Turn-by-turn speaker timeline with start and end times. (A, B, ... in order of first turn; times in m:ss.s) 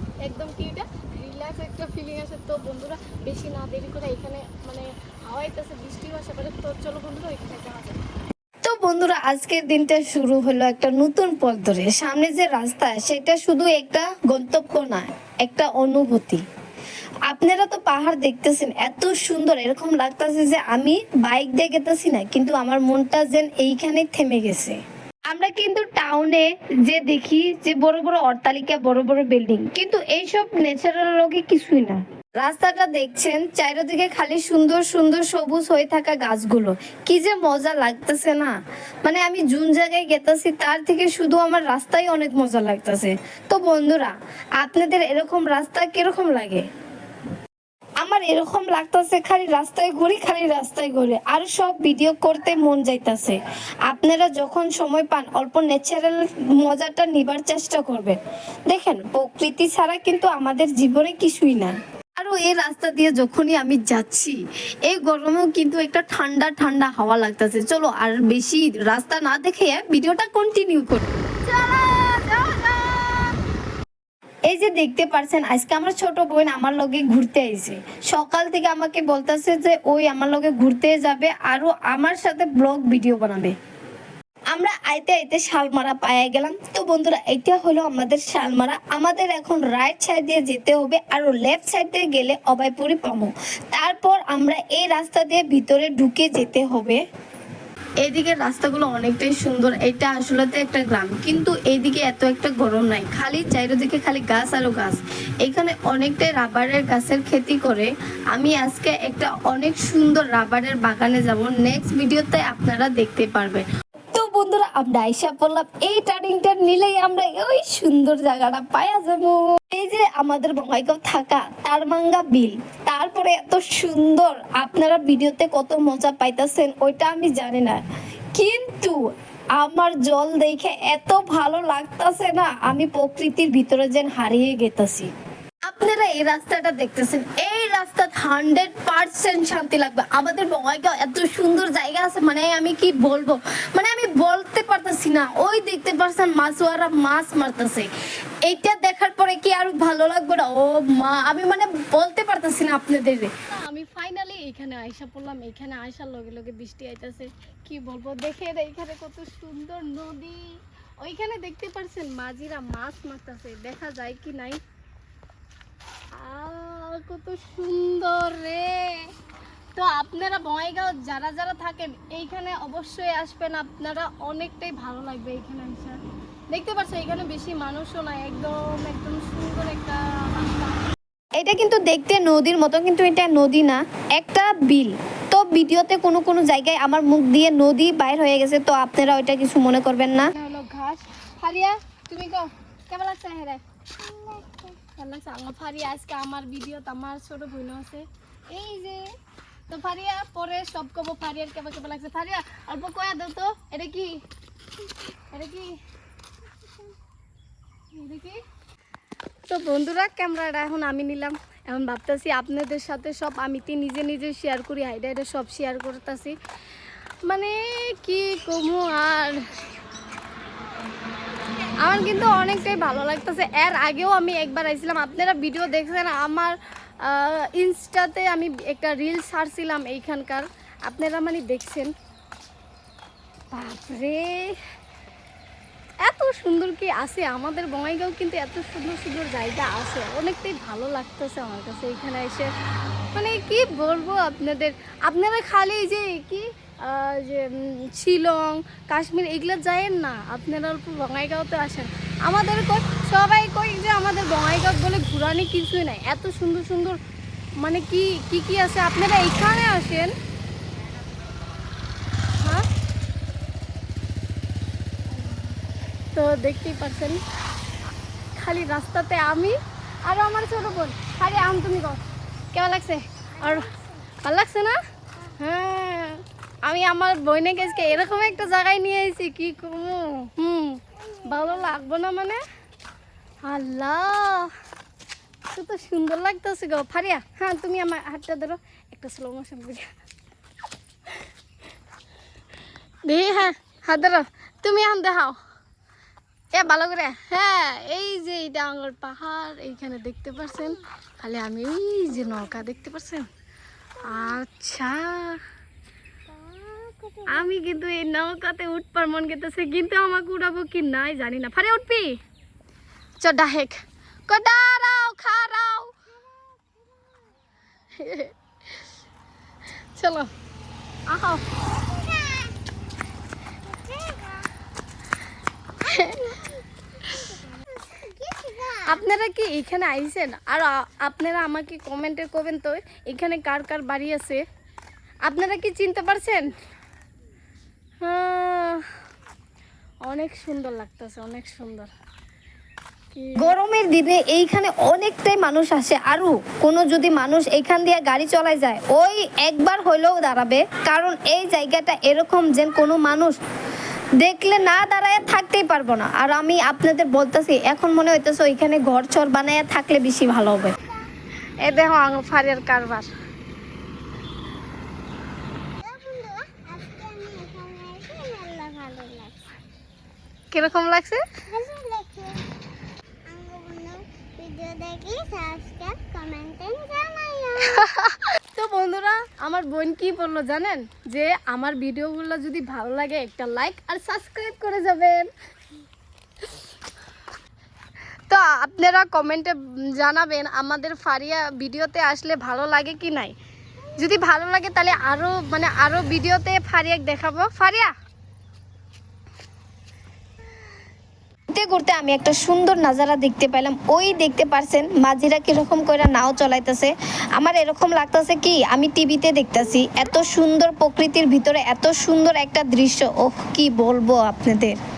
0:00.2-0:08.0 A
0:08.6-0:16.4 B
0:17.3-0:24.8 B
0:25.3-0:38.5 B
0:39.0-0:46.6 B
0:48.0-1:11.0 B
1:11.4-1:13.4 A
1:14.5-1:23.5 B
1:24.5-1:37.0 B
1:38.0-2:07.8 B
2:08.3-2:09.0 B
2:09.6-2:15.1 B
2:15.6-2:27.9 B
2:28.4-2:33.3 B
2:33.5-2:44.6 A
2:46.1-2:49.1 A
2:49.8-2:56.0 A
2:56.5-3:00.8 A
3:01.4-3:10.3 B
3:10.3-3:13.6 A
3:14.1-3:14.7 C
3:14.8-3:19.1 A
3:19.7-3:24.2 A
3:25.3-3:25.7 A
3:27.9-3:28.4 A
3:29.5-3:36.4 A
3:37.2-3:39.4 A
3:41.8-3:51.9 A
3:53.5-3:54.6 A
3:56.0-4:02.5 A
4:03.1-4:17.0 A
4:17.6-4:20.1 A
4:22.4-4:22.7 A
4:25.1-4:25.5 A
4:26.1-4:27.2 A
4:28.4-4:32.0 A
4:32.5-4:33.7 A
4:33.4-4:33.8 C
4:34.2-4:34.8 A
4:35.4-4:42.4 A
4:43.4-4:44.5 A
4:45.5-4:49.9 A
4:53.0-4:55.4 A
4:56.5-5:03.3 A
5:04.0-5:05.4 A
5:06.3-5:07.4 C
5:07.2-5:12.2 A
5:13.2-5:15.9 A
5:16.2-5:17.3 C
5:17.9-5:18.3 A
5:20.0-5:20.3 A
5:21.1-5:21.4 A
5:21.8-5:22.6 C
5:23.6-5:24.5 C
5:25.8-5:26.3 A
5:25.8-5:29.0 C
5:28.8-5:34.4 A
5:35.2-5:36.5 A
5:38.0-5:38.8 A
5:40.0-5:41.9 A
5:43.1-5:43.6 A
5:43.4-5:53.4 B
5:54.2-6:00.7 B
6:01.6-6:03.1 A
6:05.8-6:09.5 C
6:10.5-6:11.2 A
6:11.5-6:12.4 C
6:13.3-6:17.8 C
6:17.7-6:25.3 A
6:28.3-6:33.3 A
6:33.9-6:37.9 A
6:41.5-6:54.8 B